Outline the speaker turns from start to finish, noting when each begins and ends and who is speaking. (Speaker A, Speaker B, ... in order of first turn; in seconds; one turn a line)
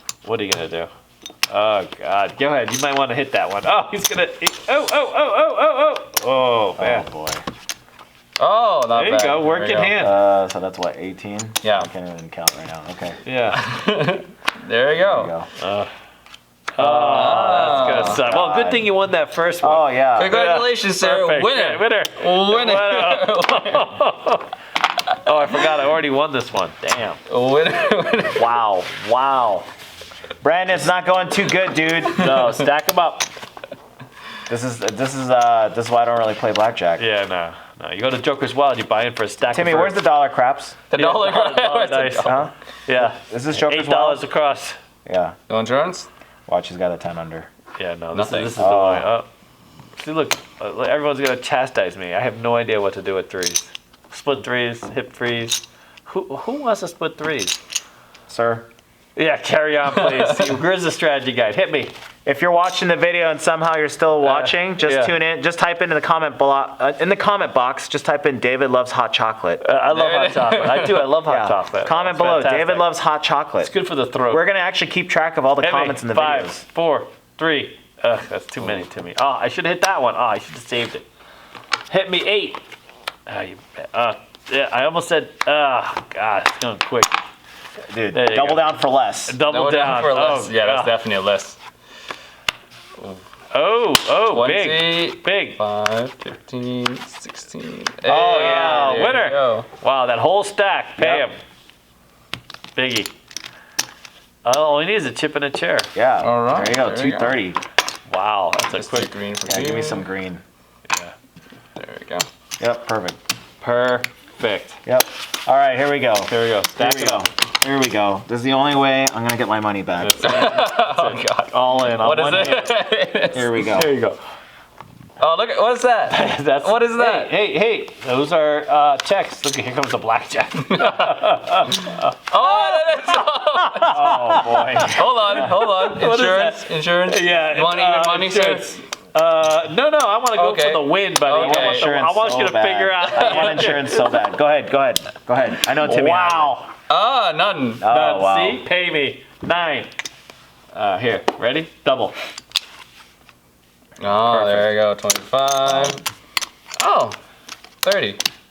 Speaker A: 0.2-0.9
Speaker A: 1.5-7.1
Speaker B: 6.8-7.4
Speaker C: 8.4-10.1
Speaker A: 8.9-10.2
Speaker B: 9.9-13.2
Speaker C: 11.6-11.9
Speaker A: 13.2-13.6
Speaker C: 13.5-15.3
Speaker B: 14.9-15.5
Speaker A: 15.6-15.9
Speaker A: 16.7-24.5
Speaker C: 16.8-18.2
Speaker B: 17.3-18.9
Speaker B: 19.6-20.6
Speaker C: 20.1-23.9
Speaker A: 25.2-27.2
Speaker C: 27.3-28.5
Speaker A: 28.3-29.7
Speaker B: 30.4-32.4
Speaker A: 32.1-33.3
Speaker B: 34.5-37.0
Speaker A: 37.0-40.0
Speaker B: 39.5-40.8
Speaker C: 40.9-42.5
Speaker A: 40.9-44.8
Speaker B: 42.2-44.2
Speaker B: 45.0-45.4
Speaker C: 45.5-46.1
Speaker B: 46.5-47.5
Speaker A: 47.8-49.3
Speaker C: 48.1-48.5
Speaker B: 48.5-49.1
Speaker A: 50.0-57.6
Speaker B: 58.3-58.7
Speaker A: 59.1-61.9
Speaker C: 59.9-60.5
Speaker B: 62.2-69.6
Speaker A: 64.2-65.1
Speaker A: 69.6-72.9
Speaker C: 69.9-71.1
Speaker B: 71.3-73.7
Speaker A: 73.6-74.4
Speaker B: 74.3-76.6
Speaker A: 75.6-81.0
Speaker A: 81.9-82.6
Speaker A: 83.3-87.2
Speaker B: 87.9-89.4
Speaker A: 88.1-91.0
Speaker C: 89.5-91.6
Speaker C: 93.0-93.2
Speaker A: 93.5-95.6
Speaker C: 94.3-99.7
Speaker B: 98.0-99.1
Speaker A: 98.1-101.4
Speaker B: 101.0-101.3
Speaker A: 102.7-103.1
Speaker A: 104.4-105.9
Speaker B: 105.9-107.6
Speaker C: 106.2-107.4
Speaker A: 108.1-109.1
Speaker C: 108.7-110.1
Speaker B: 109.5-110.4
Speaker A: 110.9-111.1
Speaker C: 111.8-112.2
Speaker B: 112.6-113.2
Speaker A: 113.6-114.8
Speaker B: 114.8-120.4
Speaker A: 116.2-117.3
Speaker A: 120.0-122.7
Speaker C: 120.2-123.7
Speaker B: 123.3-123.9
Speaker A: 123.7-124.2
Speaker C: 125.2-127.4
Speaker A: 126.1-144.2
Speaker C: 130.6-131.2
Speaker C: 131.9-138.8
Speaker B: 133.9-135.5
Speaker C: 140.3-141.9
Speaker B: 141.4-146.7
Speaker C: 143.1-143.8
Speaker A: 145.8-146.7
Speaker C: 146.9-147.8
Speaker B: 147.8-148.6
Speaker A: 147.9-149.9
Speaker A: 150.7-152.1
Speaker C: 154.0-156.0
Speaker A: 154.0-154.7
Speaker B: 155.7-156.0
Speaker C: 156.8-157.2
Speaker C: 157.8-158.2